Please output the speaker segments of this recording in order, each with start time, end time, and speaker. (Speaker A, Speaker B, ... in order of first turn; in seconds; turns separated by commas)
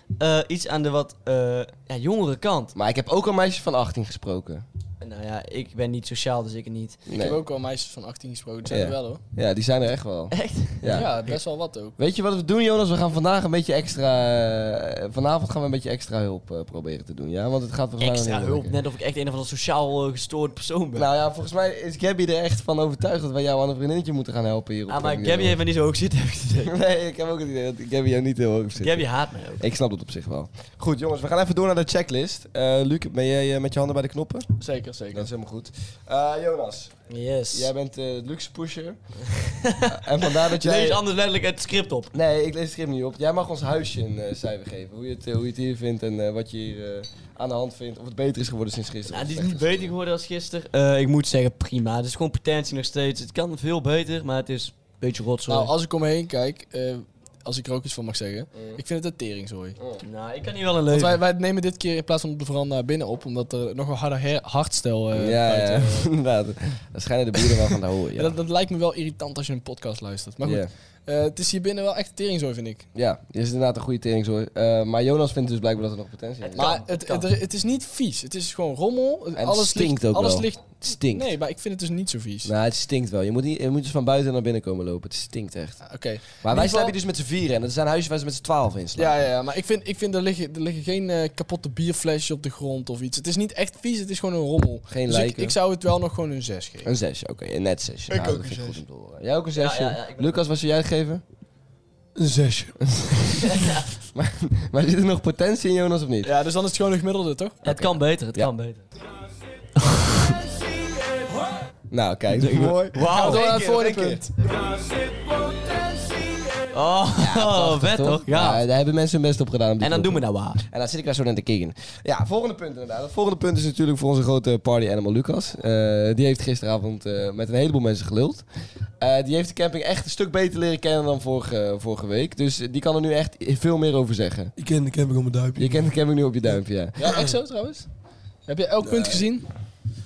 Speaker A: 0.2-2.7, Speaker B: 2.8-4.7, Speaker A: 5.0-7.0, Speaker B: 7.1-7.4, Speaker C: 7.2-9.2, Speaker B: 8.7-11.3, Speaker A: 10.3-11.1, Speaker C: 10.9-12.0, Speaker B: 12.0-18.8, Speaker A: 18.0-21.1, Speaker B: 20.9-25.6, Speaker A: 24.9-26.8, Speaker B: 26.6-29.1, Speaker A: 28.8-29.7, Speaker B: 29.6-34.5, Speaker C: 34.6-35.3, Speaker B: 35.1-36.9, Speaker A: 37.1-37.7, Speaker B: 37.5-39.0, Speaker A: 39.3-42.1, Speaker B: 39.9-41.0, Speaker B: 42.1-49.9, Speaker A: 49.1-55.7, Speaker C: 55.5-59.8, Speaker B: 58.5-58.8, Speaker A: 60.0-61.2, Speaker C: 60.9-66.1, Speaker B: 65.1-68.4, Speaker C: 68.2-72.9, Speaker B: 70.4-70.7, Speaker B: 73.0-76.8, Speaker A: 76.4-77.3, Speaker C: 76.6-82.5, Speaker B: 79.4-81.3, Speaker B: 82.4-89.2, Speaker C: 85.8-87.0, Speaker C: 89.0-96.9, Speaker B: 94.9-95.6, Speaker B: 96.8-101.2, Speaker A: 99.5-100.4, Speaker D: 102.2-102.9, Speaker B: 103.0-103.4, Speaker A: 103.4-103.9, Speaker B: 104.1-106.3, Speaker C: 106.2-107.6, Speaker A: 107.6-108.8, Speaker B: 107.7-108.5, Speaker B: 111.9-114.3, Speaker A: 112.4-113.5, Speaker C: 113.1-114.3, Speaker A: 116.7-118.6, Speaker B: 117.2-128.4, Speaker A: 119.8-120.6, Speaker B: 129.0-134.5, Speaker D: 134.6-135.9, Speaker B: 135.6-137.1, Speaker C: 137.0-137.9, Speaker C: 138.5-139.5, Speaker D: 138.9-139.2